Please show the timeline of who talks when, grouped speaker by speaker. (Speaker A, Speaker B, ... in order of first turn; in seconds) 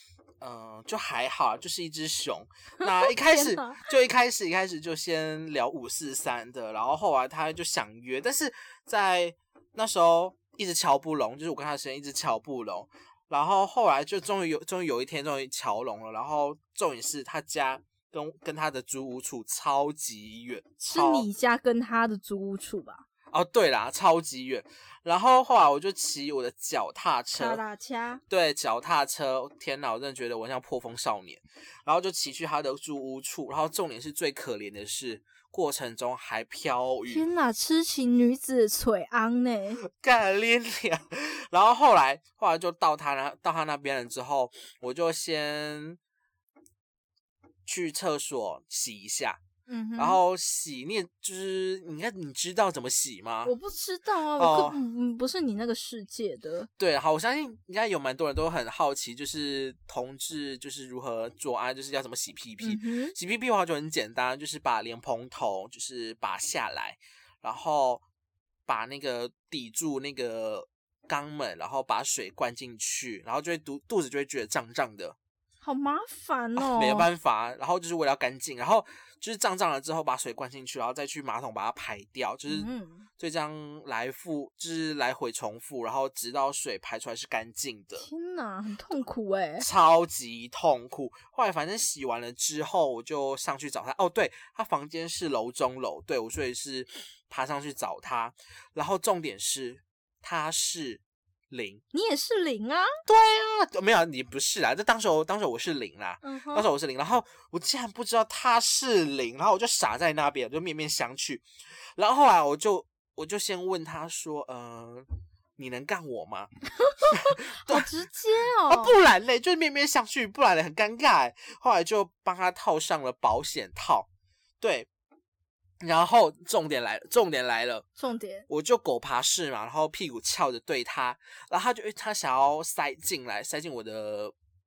Speaker A: 0.4-21.3, 23.3-27.6, 28.3-37.2, 39.8-46.0, 47.6-49.4, 50.0-53.5, 54.4-54.8, 56.8-68.0, 68.7-75.2, 76.5-82.7, 83.2-88.0, 89.6-101.8, 103.0-116.5, 117.1-117.9, 118.7-124.1, 124.6-124.9, 125.8-127.8, 128.5-134.3
Speaker B: 2.8-3.9, 20.9-23.1, 27.3-28.2, 37.1-39.8, 49.7-50.2, 53.4-56.7, 62.6-63.1, 75.6-77.1, 82.5-83.1, 88.0-89.7, 101.9-103.0, 106.2-106.7, 116.8-119.0, 128.0-128.5